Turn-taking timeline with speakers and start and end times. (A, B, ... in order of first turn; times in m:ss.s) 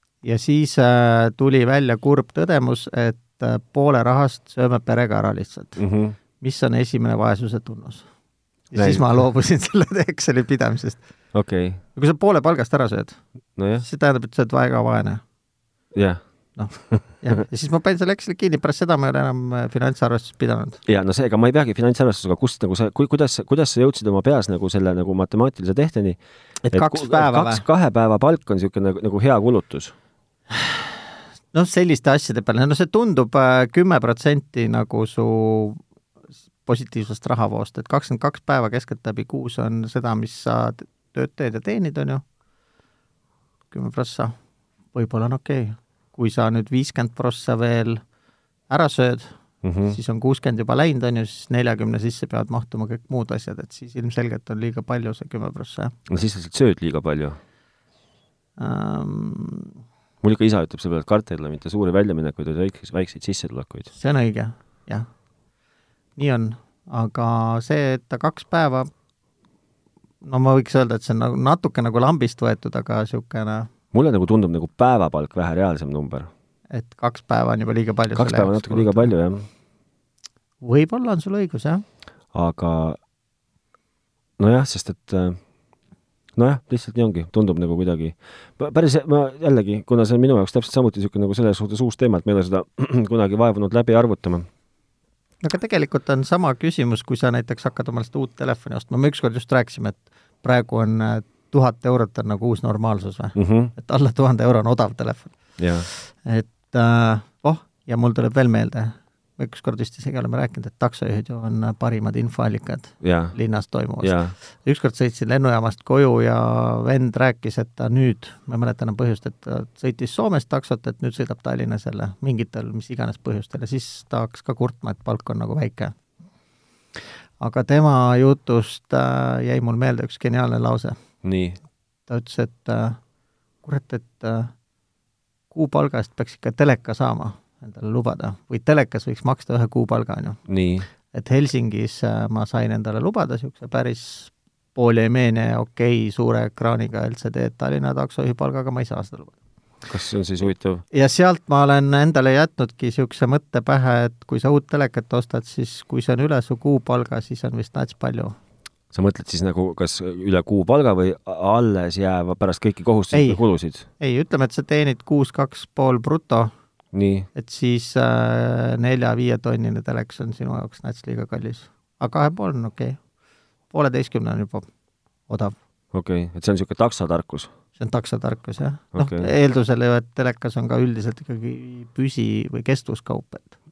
0:00.2-0:05.8 A
0:05.8-0:06.2 B
0:06.4-0:08.0 A
0:08.7-0:11.0 A
0:08.7-0:09.2 B
0:11.3-0:11.8 B
0:11.9-0:13.2 A
0:13.6-0:13.8 B
0:13.8-0:15.2 A
0:15.9-0:16.2 B
0:16.6-0:20.8 A
0:20.8-0:29.9 B
0:26.6-0:27.6 A
0:30.5-0:30.9 A
0:31.5-0:35.8 A
0:36.6-0:42.2 A
0:43.7-0:44.3 A
0:44.9-0:48.0 A
0:48.7-0:49.3 A
0:49.6-0:50.0 B
0:49.8-0:55.9 A
0:56.1-0:57.4 B
0:58.6-0:59.8 A
1:00.2-1:03.9 B
1:03.9-1:05.1 A
1:06.2-1:08.9 A
1:10.2-1:13.7 A
1:13.9-1:16.3 B
1:16.7-1:19.1 A
1:18.1-1:19.5 B
1:20.6-1:21.8 A
1:22.3-1:23.0 B
1:24.4-1:25.4 B
1:26.4-1:34.5 B
1:35.4-2:05.9 A
1:43.4-1:43.7 B
1:45.6-1:45.9 B
1:53.0-1:53.4 B
1:54.0-1:54.3 B
2:07.4-2:11.0 A
2:11.2-2:11.6 B
2:12.1-2:13.0 A
2:13.6-2:14.5 A
2:15.5-2:20.4 A
2:20.5-2:20.9 B
2:21.1-2:29.3 A
2:29.9-2:30.8 B
2:30.9-2:38.3 A
2:38.9-2:43.9 B
2:43.1-2:43.4 A
2:44.0-2:46.5 A
2:46.9-2:47.3 B
2:47.3-2:53.0 A
2:53.7-2:54.7 A
2:55.3-2:55.5 A
2:55.9-2:57.5 B
2:57.8-3:03.5 A
2:58.9-2:59.3 B